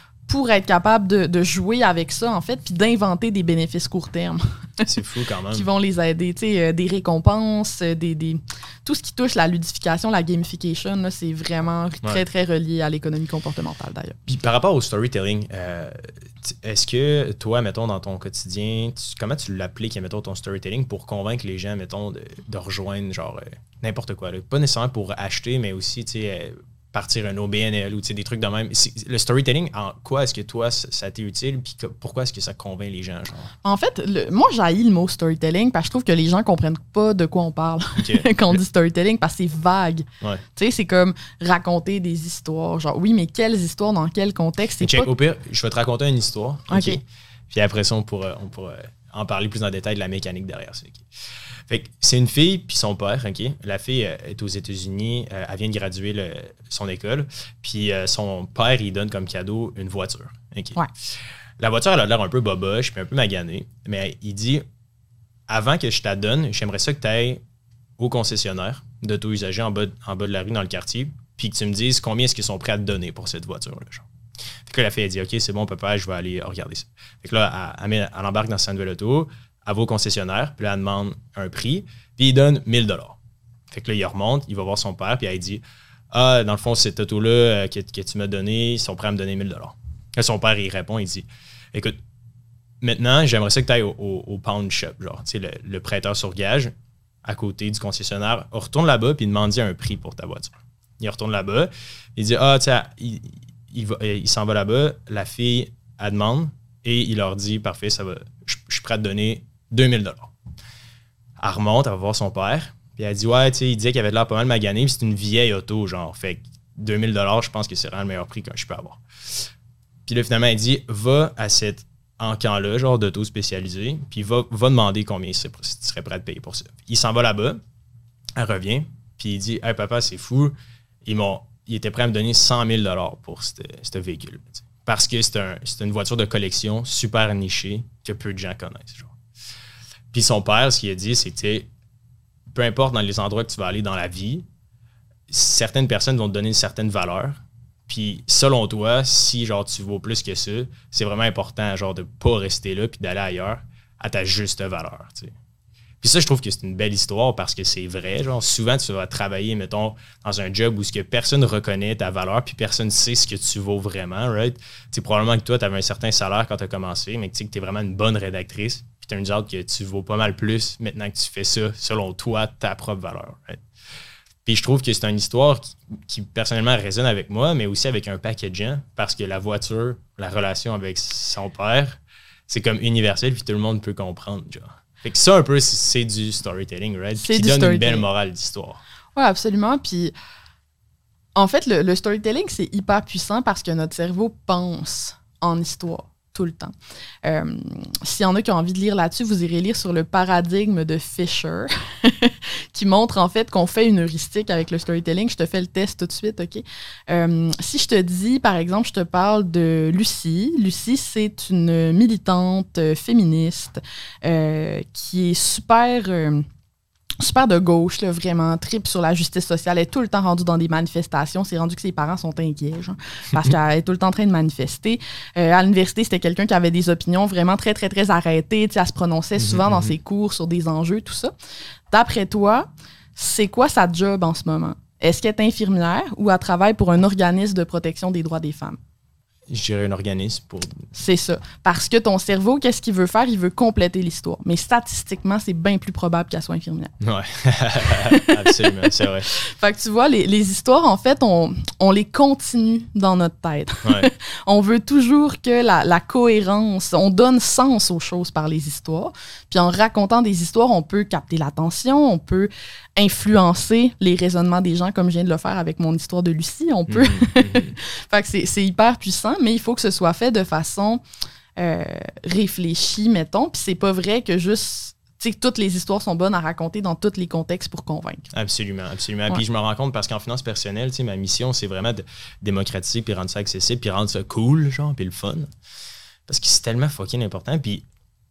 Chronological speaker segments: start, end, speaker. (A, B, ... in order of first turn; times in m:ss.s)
0:00.3-0:04.9 A
0:04.8-0:05.7 B
0:05.5-0:14.2 A
0:14.3-0:33.5 B
0:33.6-0:45.1 A
0:38.0-0:38.6 B
0:44.8-0:51.0 B
0:46.7-0:47.0 A
0:51.7-1:00.8 B
1:01.6-1:04.6 B
1:05.5-1:07.4 B
1:08.0-1:14.1 B
1:14.7-1:23.2 B
1:23.7-1:25.6 B
1:26.1-1:32.0 B
1:32.8-1:36.7 B
1:37.2-1:50.3 B
1:51.4-1:59.0 B
2:00.1-2:07.6 B
2:08.4-2:10.6 B
2:11.1-2:19.2 B
2:20.1-2:21.7 B
2:22.5-2:24.5 B
2:25.3-2:35.3 B
2:36.0-2:53.6 B
2:54.4-3:08.8 B
3:07.2-3:08.1 A
3:09.2-3:10.1 A
3:11.4-3:36.5 A
3:37.2-3:51.3 A
3:49.4-3:49.9 B
3:51.9-3:58.8 A
3:59.5-4:00.9 B
4:00.9-4:06.9 A
4:07.0-4:09.3 B
4:07.9-4:31.0 A
4:26.9-4:27.8 B
4:31.6-4:38.3 A
4:38.3-4:45.5 B
4:46.3-4:47.8 B